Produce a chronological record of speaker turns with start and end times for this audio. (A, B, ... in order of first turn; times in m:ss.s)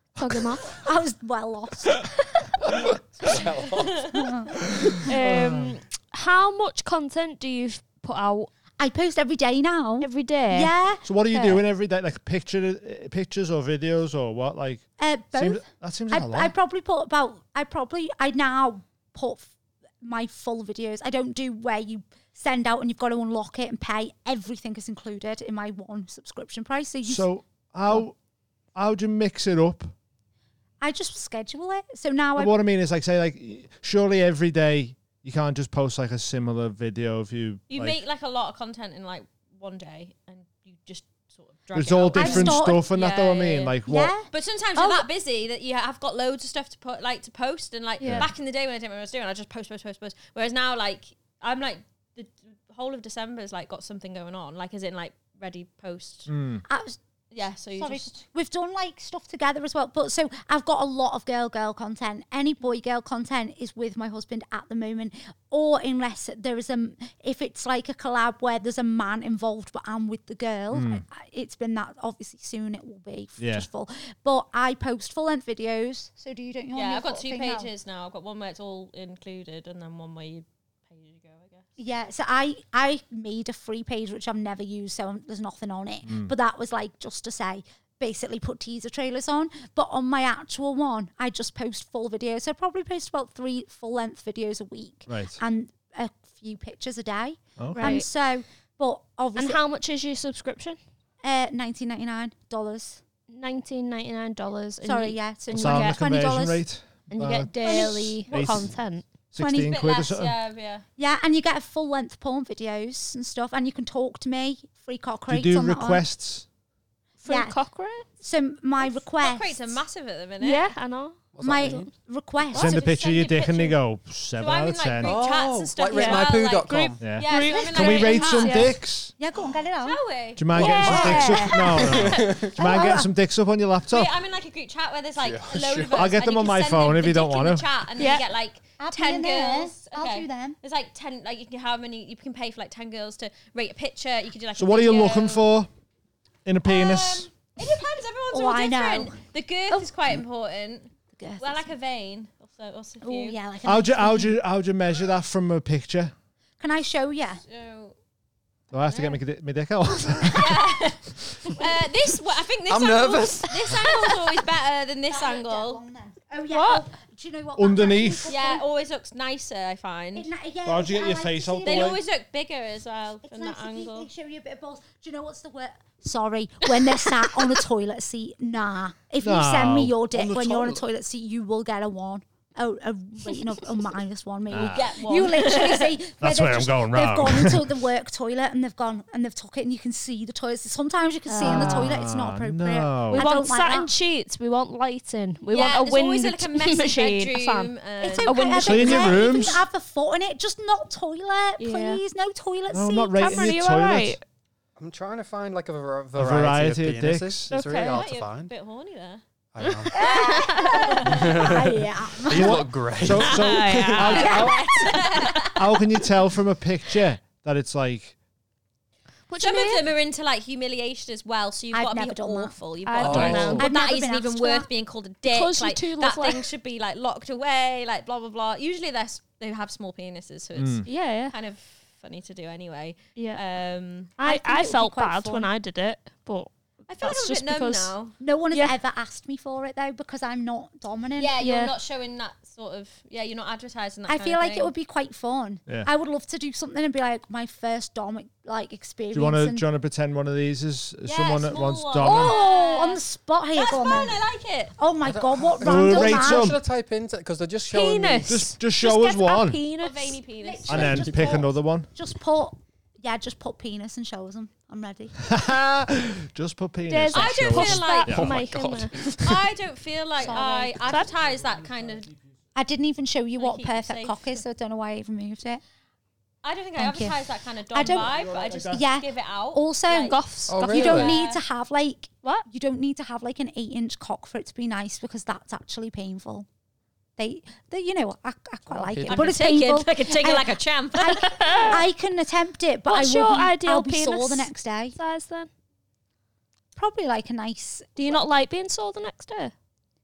0:00.2-0:00.7 A
0:00.6-0:03.5 B
0:03.2-0:04.1 C
0:03.9-0:04.2 D
0:04.0-0:05.1 B
0:05.1-0:08.5 A
0:05.1-0:05.8 E
0:08.8-0:11.6 B
0:10.0-0:10.7 A
0:11.0-0:16.5 E
0:15.0-0:27.3 B
0:27.0-0:28.2 E
0:28.8-0:29.9 E
0:30.8-0:32.5 B
0:32.4-0:38.0 E
0:37.7-0:43.8 D
0:41.7-0:44.1 E
0:42.2-0:42.9 B
0:43.9-0:45.1 B
0:44.3-0:56.3 D
0:48.0-0:48.3 A
0:48.0-0:48.3 E
0:56.3-0:56.6 E
0:56.7-0:57.0 B
0:57.3-0:58.1 D
0:57.8-1:17.7 B
1:10.7-1:11.0 E
1:13.4-1:13.7 E
1:16.7-1:21.7 D
1:21.8-1:39.6 B
1:26.0-1:26.3 E
1:35.1-1:35.4 E
1:37.6-1:38.0 E
1:37.7-1:38.1 A
1:39.4-1:40.8 A
1:41.2-1:43.0 B
1:43.3-1:46.1 A
1:44.8-1:46.6 B
1:45.5-1:50.3 E
1:47.1-1:49.1 A
1:47.5-1:48.5 B
1:49.4-1:49.8 B
1:49.5-1:50.8 D
1:51.0-1:56.0 B
1:55.3-1:56.5 E
1:57.2-1:58.1 A
1:57.3-1:57.6 B
1:58.2-1:59.8 B
1:58.8-2:00.7 D
2:00.4-2:01.9 A
2:01.3-2:01.9 C
2:01.4-2:02.9 B
2:02.5-2:03.8 D
2:02.5-2:05.2 E
2:04.4-2:08.7 D
2:05.0-2:07.0 C
2:05.9-2:08.8 A
2:07.0-2:09.1 E
2:09.2-2:10.0 B
2:09.8-2:12.0 D
2:10.4-2:14.1 E
2:10.5-2:11.9 B
2:10.5-2:12.6 C
2:12.5-2:13.1 B
2:13.9-2:25.5 D
2:15.2-2:16.1 C
2:15.9-2:17.7 E
2:18.0-2:18.2 A
2:18.8-2:20.6 B
2:24.6-2:25.7 E
2:26.4-2:27.3 E
2:26.6-2:33.4 D
2:28.3-2:29.2 B
2:31.2-2:31.7 B
2:33.0-2:34.4 B
2:33.6-2:36.1 E
2:36.6-2:37.4 B
2:37.5-2:38.0 D
2:38.7-2:40.7 E
2:38.8-2:39.2 D
2:40.3-2:45.8 D
2:42.7-2:43.8 C
2:45.1-2:48.6 B
2:46.5-2:46.8 A
2:47.6-2:48.3 E
2:48.3-2:50.3 D
2:50.2-2:52.0 B
2:50.6-2:52.0 E
2:51.6-2:54.1 D
2:53.2-3:13.9 B
2:59.2-3:00.1 E
3:00.1-3:00.9 C
3:04.5-3:04.9 E
3:04.6-3:06.0 D
3:06.2-3:07.8 E
3:11.3-3:12.0 A
3:11.4-3:13.3 E
3:13.1-3:17.7 A
3:15.5-3:18.6 D
3:18.0-3:23.5 B
3:18.2-3:19.3 A
3:18.6-3:19.6 E
3:21.6-3:22.0 A
3:22.7-3:24.2 E
3:23.2-3:24.2 A
3:24.8-3:28.5 C
3:26.2-3:27.5 E
3:27.5-3:28.0 A
3:27.9-3:29.2 D
3:29.5-3:30.1 C
3:29.9-3:32.6 B
3:30.0-3:31.3 D
3:30.3-3:30.9 A
3:31.0-3:33.6 C
3:32.3-3:34.7 E
3:33.2-3:35.8 D
3:33.4-3:34.9 A
3:34.2-3:34.5 B
3:35.6-3:38.2 E
3:39.3-3:39.8 A
3:39.4-3:54.2 D
3:41.7-3:42.6 B
3:42.8-3:43.7 A
3:43.0-3:43.6 C
3:43.0-3:43.6 E
3:43.6-3:44.7 B
3:45.2-3:46.4 A
3:50.6-3:50.9 E
3:50.9-3:51.4 A
3:53.2-3:53.4 A
3:54.2-3:56.5 A
3:54.2-3:55.5 B
3:56.9-3:58.2 D
3:57.0-3:58.0 A
3:58.2-4:01.7 B
3:58.5-3:58.8 A
4:01.2-4:04.7 D
4:01.4-4:01.7 A
4:04.1-4:09.7 B
4:09.1-4:12.4 E
4:11.0-4:13.0 D
4:12.0-4:14.2 B
4:13.6-4:14.8 D
4:14.8-4:16.6 B
4:15.0-4:18.5 C
4:15.6-4:16.6 E
4:17.7-4:20.2 A
4:18.3-4:19.6 E
4:19.8-4:21.4 D
4:20.4-4:25.2 B
4:20.7-4:21.9 E
4:20.8-4:21.5 C
4:25.2-4:28.4 E
4:26.9-4:28.9 A
4:27.1-4:28.3 D
4:28.1-4:29.5 C
4:29.2-4:32.1 D
4:30.2-4:30.8 B
4:32.6-4:35.6 B
4:33.4-4:34.4 D
4:36.4-4:41.4 D
4:36.8-4:37.2 B
4:37.7-4:46.5 B
4:37.8-4:38.8 E
4:40.1-4:41.2 A
4:40.5-4:41.2 C
4:47.2-4:55.0 B
4:48.7-4:49.4 C
4:49.1-4:51.4 D
4:51.2-4:51.9 A
4:52.9-4:55.5 A
4:56.8-4:58.2 B
4:58.0-4:59.5 A